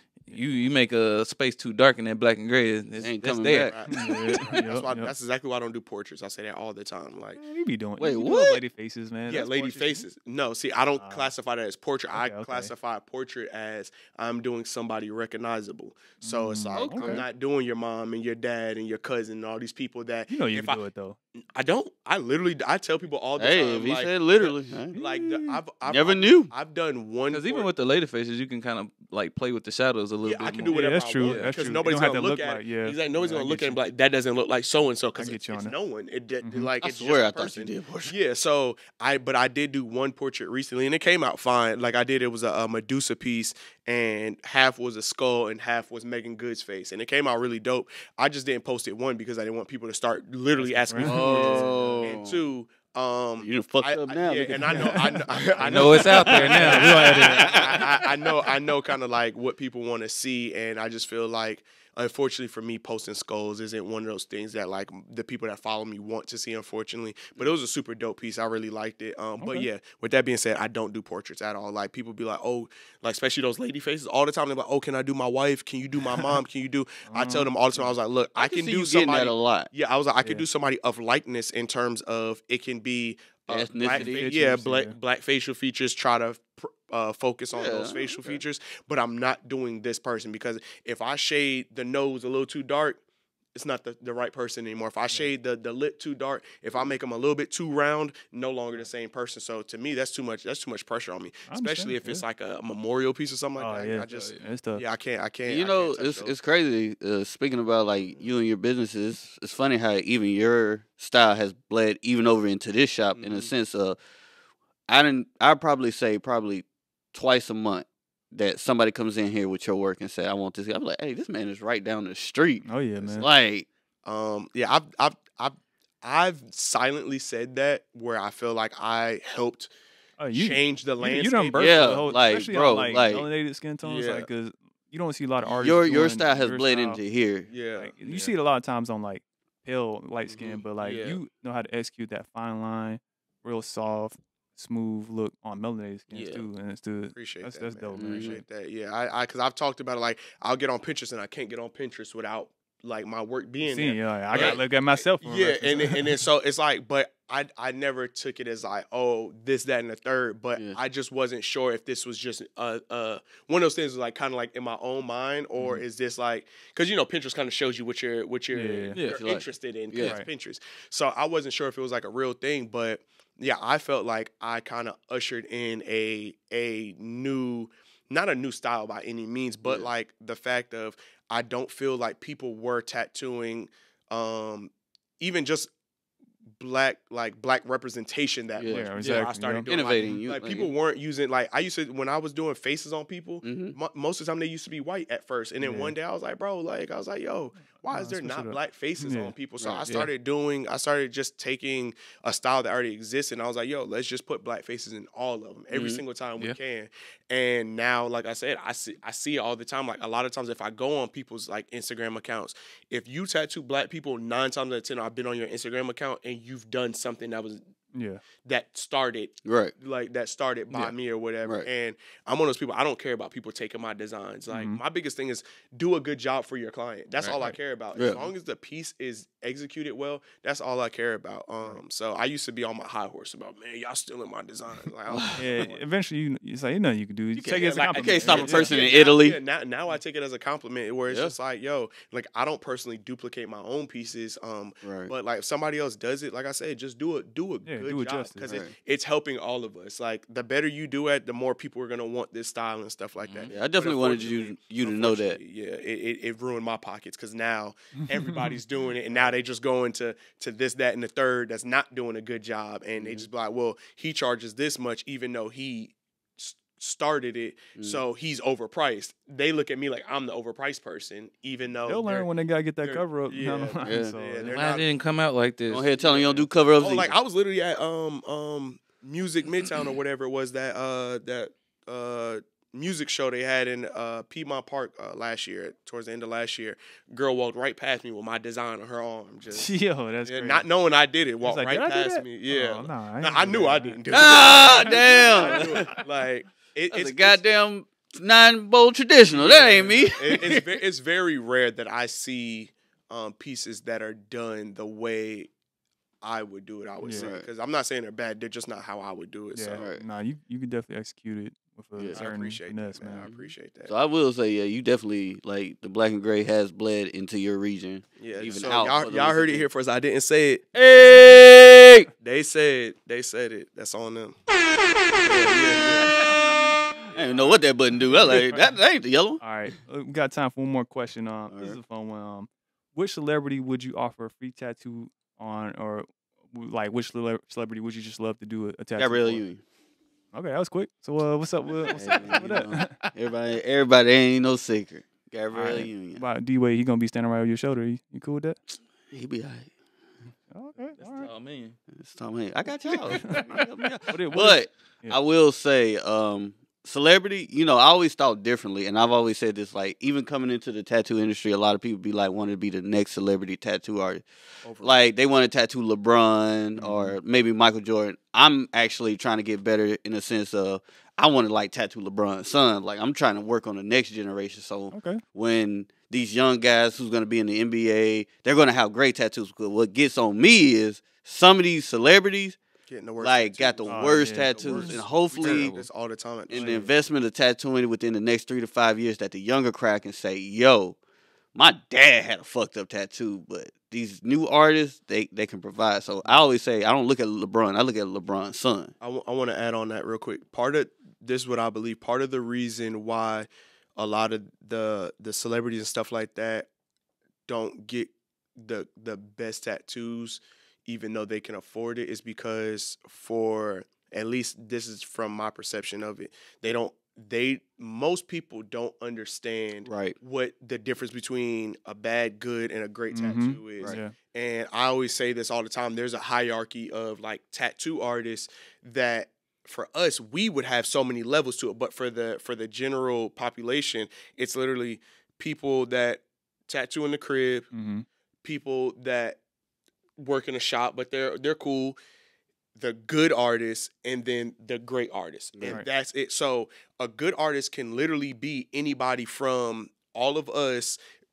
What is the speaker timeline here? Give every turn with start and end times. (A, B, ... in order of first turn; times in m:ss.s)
0:00.2-0:03.8 A
0:03.0-0:04.1 B
0:03.7-0:07.4 C
0:03.9-0:05.1 D
0:07.4-0:10.0 D
0:08.0-0:08.6 B
0:09.2-0:20.8 C
0:11.0-0:11.3 D
0:12.1-0:12.7 D
0:16.2-0:17.2 D
0:16.7-0:17.2 B
0:20.3-0:21.2 D
0:21.4-0:27.7 C
0:23.4-0:25.0 B
0:24.9-0:25.6 D
0:25.8-0:26.5 B
0:27.3-0:31.5 A
0:30.2-1:33.0 C
0:30.7-0:33.8 D
0:35.2-0:35.7 D
0:36.4-0:36.7 D
0:36.8-0:38.1 B
0:50.6-0:52.2 D
0:51.0-0:52.4 B
0:53.4-0:58.1 B
0:54.7-0:55.0 D
0:55.6-0:57.1 A
0:56.0-0:57.8 D
1:09.4-1:09.7 D
1:17.1-1:17.9 D
1:18.4-1:19.7 B
1:23.5-1:24.3 B
1:23.8-1:24.9 D
1:27.5-1:28.4 B
1:33.5-1:46.3 C
1:41.5-1:42.2 D
1:43.6-1:44.8 D
1:44.1-1:44.4 A
1:45.5-1:54.0 B
1:53.1-1:53.5 C
1:54.9-2:03.7 B
2:02.6-2:03.3 D
2:04.0-2:09.7 C
2:10.2-2:17.0 D
2:10.3-2:12.2 C
2:11.5-2:13.3 B
2:13.8-2:14.3 C
2:15.6-2:17.5 B
2:17.5-2:17.9 C
2:17.8-2:28.4 D
2:18.0-2:18.3 A
2:20.3-2:21.2 C
2:26.1-2:26.4 A
2:27.1-3:05.7 C
2:28.0-2:28.4 B
2:33.6-2:36.2 D
2:48.5-2:49.0 D
2:49.0-2:50.2 B
2:50.0-2:50.3 D
2:59.6-2:59.9 B
3:06.6-3:37.6 C
3:08.6-3:08.9 B
3:08.6-3:10.0 D
3:09.7-3:10.7 B
3:13.4-3:13.8 B
3:15.6-3:15.9 D
3:17.9-3:19.3 D
3:25.7-3:26.0 B
3:37.9-3:38.2 D
3:38.4-3:55.8 C
3:39.4-3:39.7 B
3:40.7-3:41.7 B
3:44.5-3:44.8 D
3:47.2-3:47.5 A
3:47.9-3:48.2 B
3:55.1-3:55.4 B
3:55.4-3:58.7 D
3:57.4-4:32.3 C
3:57.9-3:59.4 B
4:01.1-4:01.3 B
4:04.8-4:05.1 B
4:07.6-4:08.6 D
4:08.4-4:08.7 B
4:13.2-4:13.5 A
4:13.5-4:15.4 B
4:18.0-4:18.5 D
4:23.0-4:23.3 B
4:27.8-4:28.0 B
4:31.9-4:34.6 D
4:32.8-4:34.9 C
4:33.8-4:34.1 B
4:34.4-4:35.9 A
4:35.7-4:37.1 B
4:36.0-4:49.7 C
4:49.5-4:50.6 D
4:50.2-4:57.5 C
4:51.4-4:54.0 D
4:54.1-4:56.0 B
4:54.7-4:55.0 D
4:55.2-4:55.6 A
4:56.9-5:00.8 B
4:59.4-5:05.5 C
5:06.2-5:09.8 C
5:07.0-5:07.3 D
5:07.1-5:07.5 B
5:09.5-5:13.3 D
5:09.8-5:10.0 B
5:12.0-5:12.2 B
5:12.1-5:13.9 C
5:13.2-5:19.7 B
5:18.2-5:20.7 C
5:20.7-5:22.1 B
5:22.2-5:24.4 C
5:25.2-5:26.2 C
5:25.2-5:26.2 B
5:27.1-5:29.4 B
5:28.0-5:28.7 D
5:29.4-5:39.4 D
5:31.5-5:31.8 B
5:39.0-5:39.6 B
5:40.3-5:42.9 D
5:41.9-5:42.4 A
5:41.9-5:46.2 B
5:45.5-5:48.6 D
5:49.1-5:49.7 B
5:50.5-5:51.3 D
5:51.0-5:51.8 A
5:51.9-6:04.2 B
5:53.2-5:55.2 D
6:04.6-6:05.0 C
6:04.8-6:22.6 B
6:06.7-6:07.1 D
6:14.9-6:15.2 D
6:22.9-6:26.8 C
6:23.2-6:25.8 B
6:23.9-6:25.0 D
6:25.4-6:25.9 A
6:26.5-6:31.0 B
6:26.5-6:26.9 D
6:31.5-6:38.9 B
6:39.0-6:46.7 C
6:47.5-7:17.7 C
6:59.8-7:00.2 B
7:03.1-7:04.1 D
7:17.7-7:18.0 D
7:18.4-7:19.4 C
7:20.2-7:22.0 C
7:22.8-7:31.0 C
7:25.5-7:25.8 B